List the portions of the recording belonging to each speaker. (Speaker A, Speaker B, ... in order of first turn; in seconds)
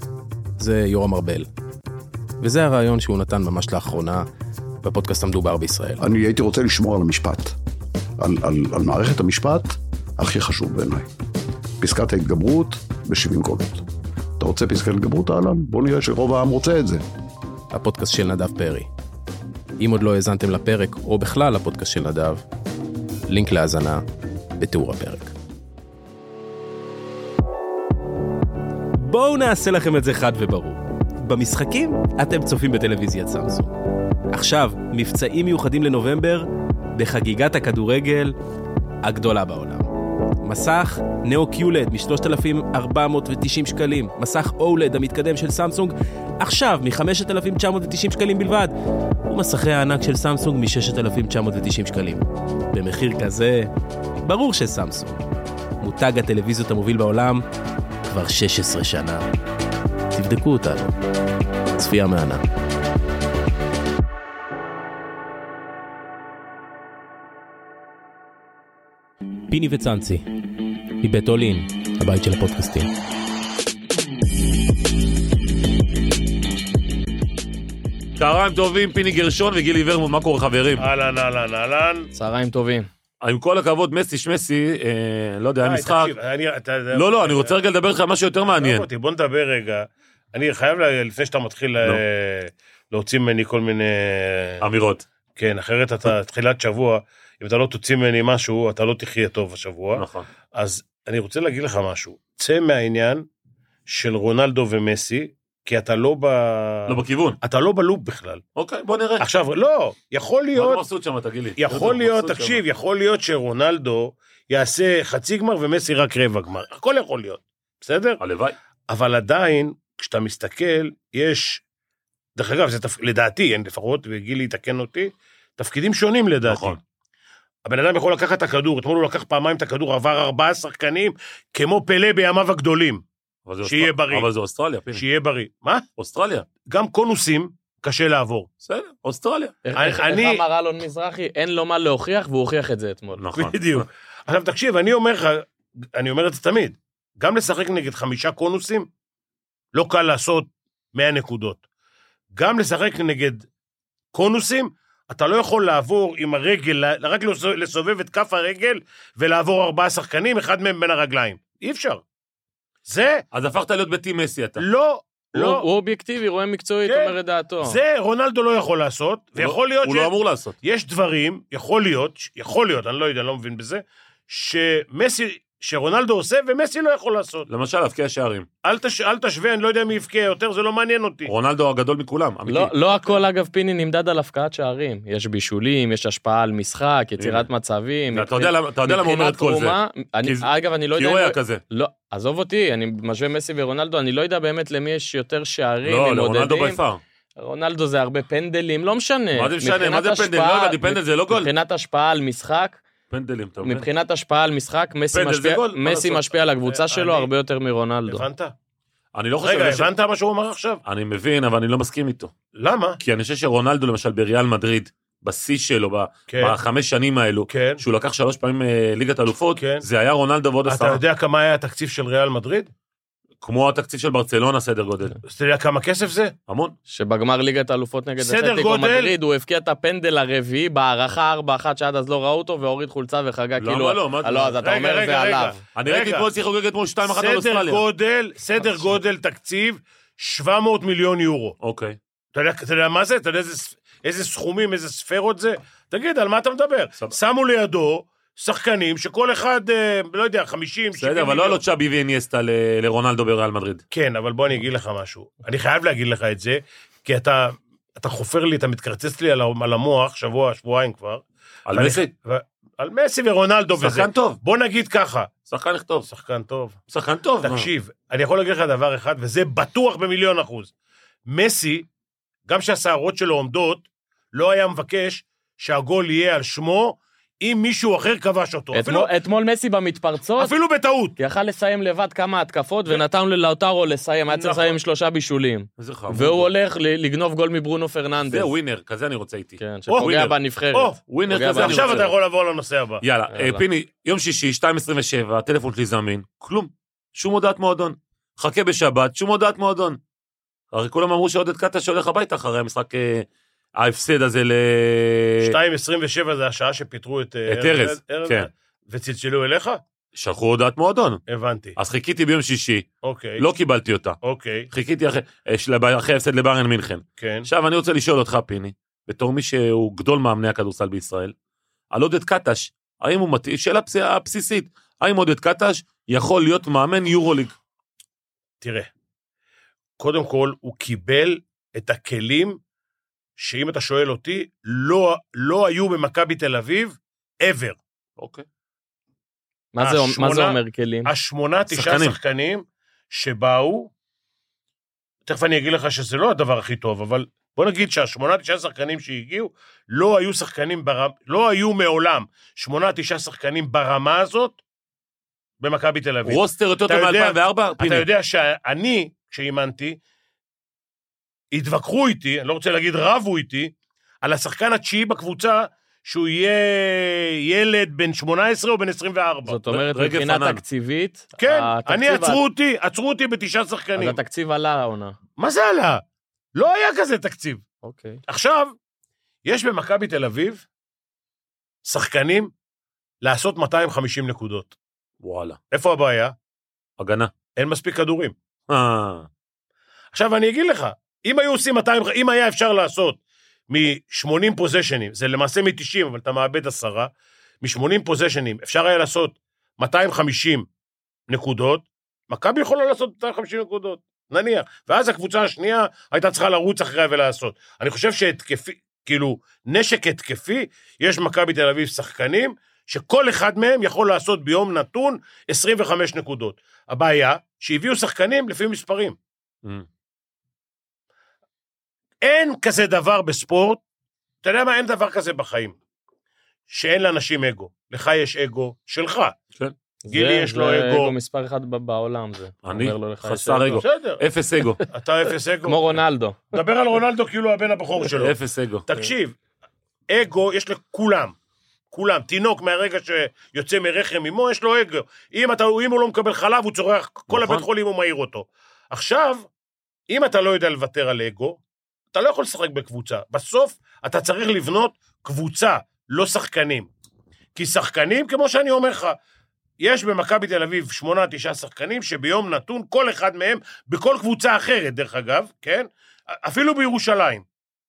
Speaker A: 0.6-1.5, 2.4-4.3, 4.8-6.0, 17.7-18.9, 19.8-22.4, 23.3-24.0, 24.6-25.3, 29.0-33.7, 34.3-38.3, 39.0-39.9, 40.4-48.7, 49.3-53.7, 54.2-55.2, 55.8-57.4, 58.1-59.3, 60.1-61.0, 61.8-62.4, 69.5-70.3, 71.0-72.9
Speaker B: 6.0-7.6, 8.2-11.1, 11.8-13.8, 14.4-17.0
Speaker C: 78.2-80.9, 83.2-86.1, 86.9-88.9, 94.6-95.0, 100.0-100.3, 106.9-107.4, 108.6-109.2, 110.5-112.6, 118.2-118.6, 126.5-126.8, 133.5-135.0, 136.0-136.5, 138.6-139.6, 143.2-143.8, 163.3-164.6, 169.4-170.6, 177.5-178.5, 181.3-182.7, 187.2-187.5, 188.1-191.6, 195.8-197.0, 199.3-201.5, 203.1-203.9, 205.1-206.4, 209.2-209.9, 210.8-212.3, 213.0-221.0, 223.4-225.2, 226.5-226.8, 233.6-234.6, 235.8-237.8, 241.6-242.0, 250.9-253.8, 261.7-262.1, 263.8-264.4, 265.5-266.1, 266.9-267.7, 285.8-286.5, 288.2-290.4, 291.1-292.1, 293.0-300.0, 300.7-305.6, 307.5-308.5, 310.1-311.2, 311.8-312.9, 313.4-314.2, 314.7-321.3, 321.9-327.6, 338.2-338.4, 341.7-342.2, 356.2-358.1, 369.7-370.6, 385.2-385.6, 387.0-387.3, 388.7-389.3, 432.6-434.8, 438.1-439.1, 447.3-447.6
Speaker D: 80.8-82.1, 85.6-87.5, 88.6-94.6, 95.4-103.3, 103.9-108.4, 109.2-110.8, 111.6-118.2, 118.9-121.6, 122.4-126.8, 127.7-133.0, 133.6-134.3, 134.9-135.8, 136.7-138.5, 139.8-140.4, 143.3-148.9, 149.7-151.6, 152.3-153.5, 154.1-162.0, 162.9-163.2, 164.6-165.7, 166.9-177.5, 178.6-181.3, 206.7-207.3, 208.1-208.5, 209.4-210.8, 212.6-213.0, 216.3-216.6, 217.5-217.8, 219.6-219.8, 220.7-222.7, 225.2-226.3, 228.2-229.1, 234.6-236.3, 237.1-241.6, 242.3-251.6, 253.9-265.3, 266.1-266.8, 267.4-270.7, 271.3-271.9, 272.5-279.1, 280.4-281.1, 284.3-284.7, 289.9-290.2, 290.7-293.0, 305.4-309.8, 311.3-311.8, 313.0-313.4, 314.2-314.7, 317.2-317.5, 328.6-328.9, 330.0-332.6, 333.4-337.8, 339.8-343.9, 345.3-354.6, 355.6-360.0, 361.5-369.6, 371.4-374.2, 375.4-376.0, 376.6-377.6, 378.3-378.7, 379.4-380.6, 381.9-382.5, 383.2-384.8, 385.7-386.3, 387.6-388.3, 390.1-393.2, 393.7-397.1, 397.6-400.7, 401.3-419.2, 422.2-423.8, 424.4-425.8, 426.7-429.4, 430.1-431.1, 433.8-434.2, 434.9-435.8, 436.5-439.4, 440.1-441.4, 441.9-449.5, 450.1-451.6, 452.1-456.9, 457.6-459.2, 459.8-467.4
Speaker E: 82.1-82.9, 139.7-143.2, 165.3-167.8, 182.5-196.8, 197.4-202.8, 203.6-208.3, 226.9-235.6, 278.7-280.5, 281.2-288.5, 289.6-292.0, 293.3-293.6, 339.7-341.1, 369.5-372.4, 374.0-375.2, 377.8-378.2, 430.1-433.8, 435.7-436.5